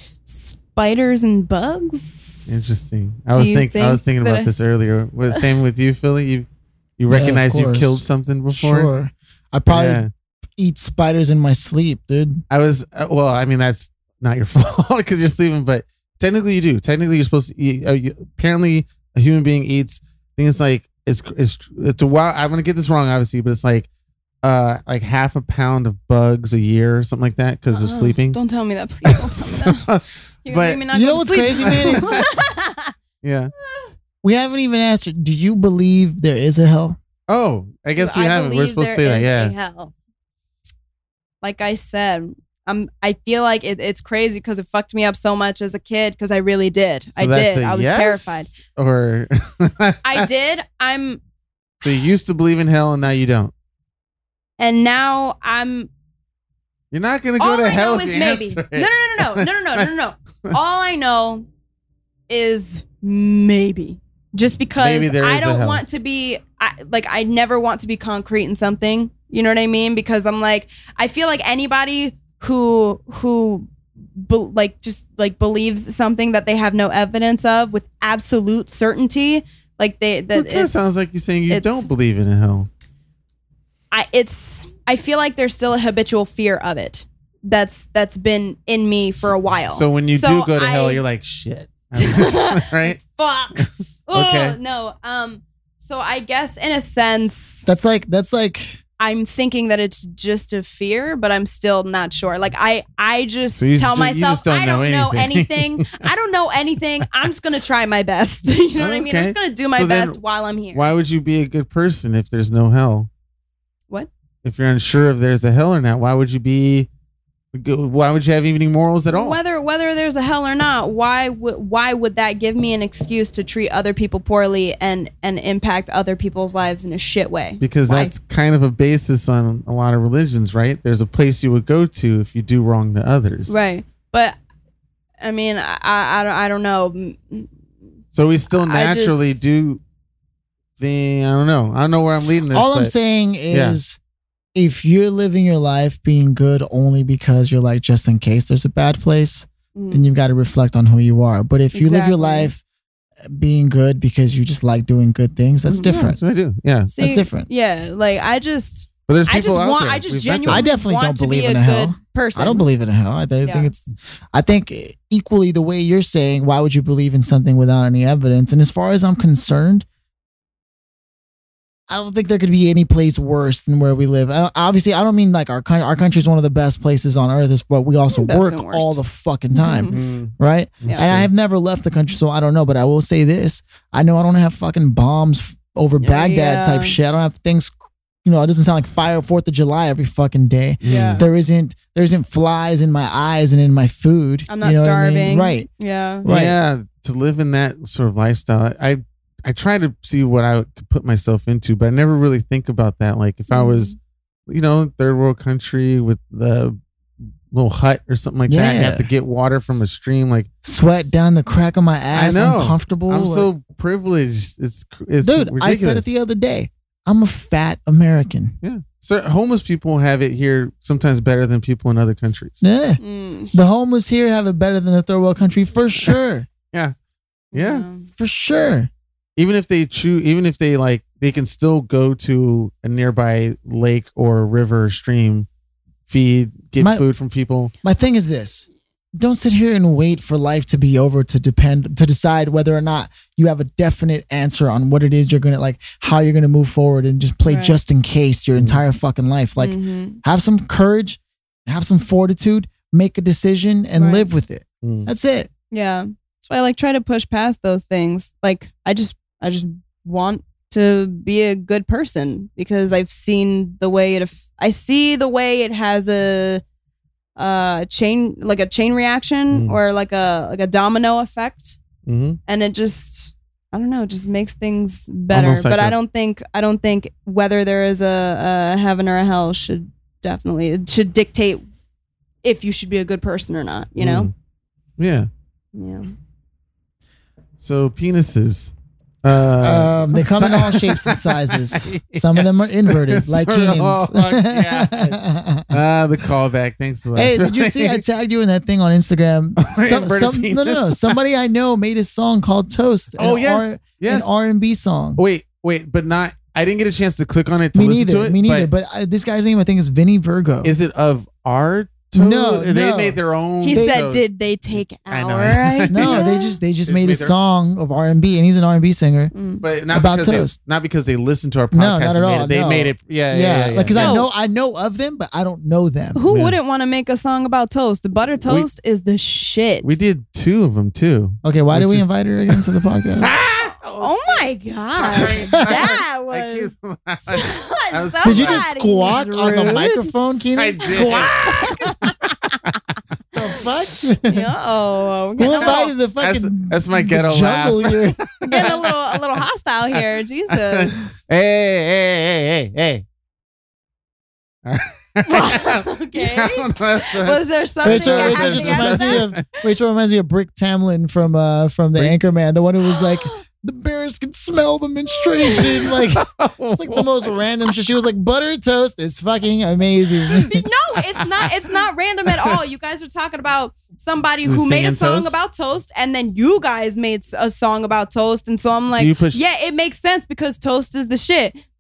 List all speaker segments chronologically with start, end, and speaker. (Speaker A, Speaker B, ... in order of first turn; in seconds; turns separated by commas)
Speaker A: 0.3-2.7, Speaker B: 2.5-6.5, Speaker A: 3.3-4.5, Speaker B: 7.0-8.9, Speaker C: 7.1-10.0, Speaker B: 9.7-10.1, Speaker C: 10.6-12.4, Speaker B: 12.5-23.9, Speaker B: 24.4-28.4, Speaker A: 27.7-29.9, Speaker B: 29.1-30.8, Speaker A: 30.4-32.9, Speaker C: 30.9-32.2, Speaker B: 31.6-32.4, Speaker B: 33.2-33.5, Speaker C: 34.2-37.0, Speaker B: 37.3-39.5, Speaker A: 38.0-39.9, Speaker A: 41.4-48.5, Speaker B: 47.2-50.3, Speaker A: 50.0-51.2, Speaker B: 51.8-53.5, Speaker A: 54.6-55.9, Speaker B: 56.9-59.9, Speaker A: 57.4-61.5, Speaker A: 62.3-80.9, Speaker B: 64.8-65.8, Speaker B: 80.3-82.7, Speaker A: 81.5-81.9, Speaker A: 83.9-91.0, Speaker B: 89.2-93.0, Speaker A: 92.0-97.7, Speaker B: 93.6-94.6, Speaker C: 97.7-98.8, Speaker A: 99.0-110.9, Speaker B: 103.6-106.0, Speaker B: 108.8-110.2, Speaker B: 110.7-113.1, Speaker B: 114.4-116.9, Speaker B: 117.5-119.4, Speaker A: 119.1-128.2, Speaker B: 127.6-133.6, Speaker A: 133.5-134.4, Speaker A: 135.2-137.5, Speaker B: 138.1-139.8, Speaker A: 138.5-139.4, Speaker B: 140.8-142.9, Speaker C: 142.5-144.0, Speaker B: 143.5-143.8, Speaker C: 144.6-152.6, Speaker A: 149.8-150.1, Speaker A: 151.7-152.5, Speaker C: 153.3-156.2, Speaker A: 155.7-156.1, Speaker B: 155.7-156.9, Speaker A: 156.9-162.7, Speaker C: 157.0-157.5, Speaker B: 159.1-160.7, Speaker C: 160.5-169.9, Speaker A: 163.4-163.7, Speaker C: 171.9-195.7, Speaker A: 178.1-179.0, Speaker A: 179.5-180.0, Speaker B: 179.9-181.3, Speaker A: 186.0-187.0, Speaker B: 190.8-191.2, Speaker A: 190.8-191.2, Speaker A: 194.5-196.3, Speaker C: 196.2-196.6, Speaker B: 196.3-203.9, Speaker A: 203.5-203.9, Speaker B: 204.5-206.8, Speaker B: 207.5-210.5, Speaker C: 208.5-209.1, Speaker C: 210.6-213.5, Speaker B: 212.1-216.1, Speaker C: 215.2-218.6, Speaker B: 218.6-222.6, Speaker C: 222.6-223.0, Speaker A: 223.0-223.5, Speaker C: 223.5-226.5, Speaker A: 227.5-228.1, Speaker B: 227.5-227.9, Speaker C: 228.2-228.9, Speaker B: 229.4-235.5, Speaker B: 236.1-237.7, Speaker C: 237.8-255.5, Speaker A: 247.4-247.8, Speaker B: 248.6-248.8, Speaker A: 249.6-250.2, Speaker A: 254.0-254.3, Speaker B: 254.8-255.1, Speaker A: 255.7-266.6, Speaker A: 267.4-271.8, Speaker B: 269.5-269.8, Speaker B: 272.1-272.4, Speaker A: 272.5-281.6, Speaker B: 275.3-276.0, Speaker A: 282.4-284.3, Speaker B: 284.0-284.3, Speaker B: 285.0-285.3, Speaker A: 285.7-286.1, Speaker B: 287.6-288.7, Speaker B: 289.2-298.0, Speaker C: 289.6-295.8, Speaker C: 297.1-305.2, Speaker B: 299.6-301.2, Speaker B: 303.2-304.3, Speaker B: 305.2-308.7, Speaker C: 307.7-310.8, Speaker B: 310.6-314.2, Speaker C: 312.1-313.2, Speaker A: 313.6-316.5, Speaker C: 313.7-314.0, Speaker B: 315.1-316.3, Speaker C: 315.9-319.3, Speaker B: 316.9-317.4, Speaker A: 319.3-319.6, Speaker B: 319.6-324.2, Speaker C: 319.9-320.6, Speaker C: 321.7-326.2, Speaker A: 323.9-324.3, Speaker A: 326.1-330.0, Speaker B: 326.3-326.6, Speaker B: 329.8-338.7, Speaker C: 331.4-333.3, Speaker A: 334.0-336.7, Speaker C: 335.2-335.8, Speaker A: 337.3-340.1, Speaker C: 338.2-341.4, Speaker B: 340.6-341.9, Speaker A: 340.8-342.8, Speaker C: 343.4-344.5, Speaker A: 344.2-345.9, Speaker C: 345.4-348.6, Speaker B: 345.6-349.2, Speaker A: 348.5-351.2, Speaker B: 349.9-353.0, Speaker B: 354.6-359.4, Speaker A: 355.3-359.3, Speaker C: 357.8-370.7, Speaker B: 362.0-362.3, Speaker A: 362.9-363.4, Speaker A: 365.4-365.9, Speaker B: 365.9-367.3, Speaker A: 370.3-381.6, Speaker B: 371.2-371.6, Speaker B: 372.3-372.6, Speaker B: 374.4-375.4, Speaker B: 379.0-379.4